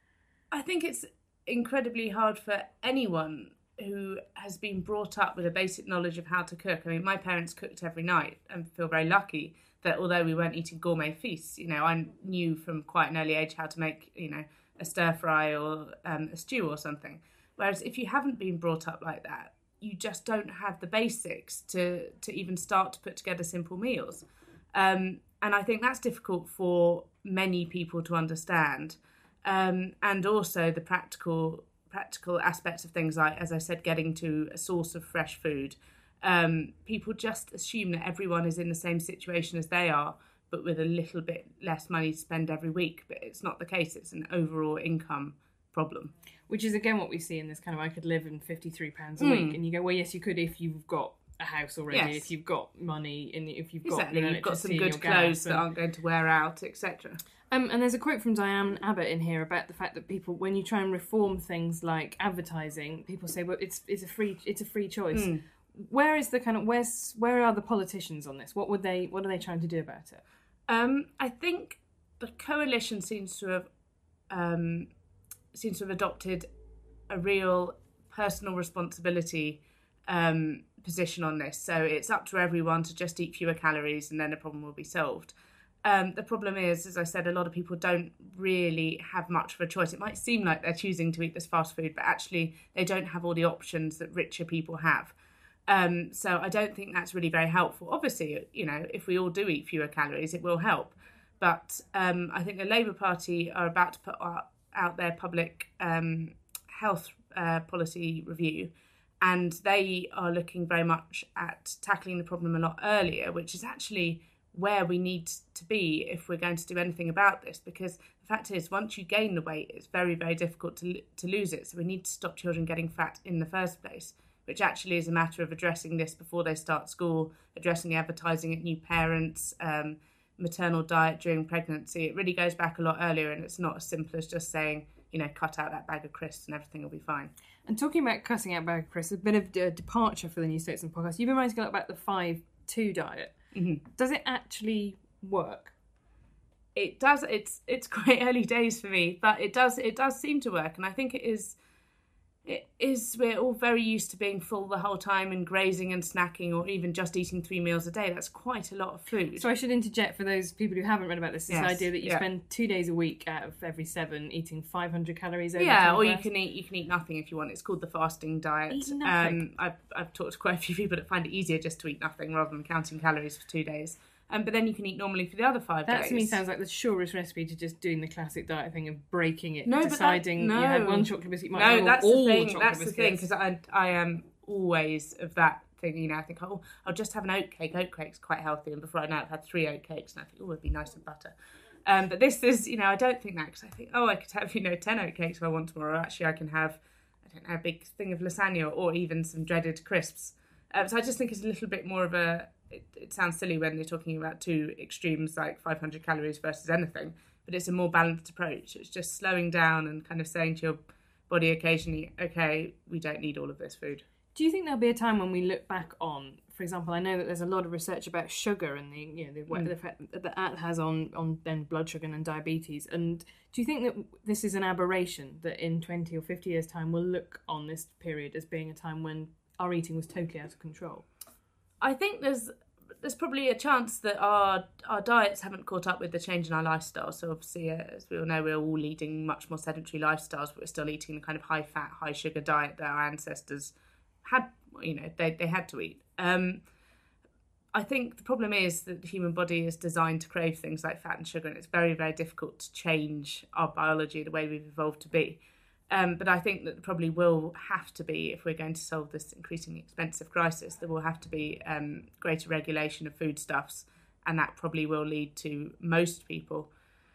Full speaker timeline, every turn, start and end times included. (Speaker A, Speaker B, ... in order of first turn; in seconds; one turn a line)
Speaker A: 0.5-46.1
Speaker B: 46.5-55.6
Speaker A: 49.2-49.6
Speaker A: 51.9-52.3
Speaker A: 53.9-57.2
Speaker B: 57.5-70.2
Speaker A: 65.1-65.4
Speaker A: 70.7-73.7
Speaker A: 74.3-74.9
Speaker A: 75.5-76.5
Speaker A: 77.1-95.1
Speaker A: 95.7-137.3
Speaker B: 137.7-143.4
Speaker A: 143.5-143.8
Speaker B: 143.9-145.7
Speaker A: 146.8-151.6
Speaker A: 152.4-159.5
Speaker B: 159.4-166.3
Speaker A: 161.5-162.2
Speaker A: 165.6-176.4
Speaker B: 168.7-169.4
Speaker B: 175.9-183.2
Speaker A: 179.7-191.3
Speaker A: 191.8-214.0
Speaker B: 214.3-231.1
Speaker A: 231.8-246.7
Speaker A: 247.7-266.7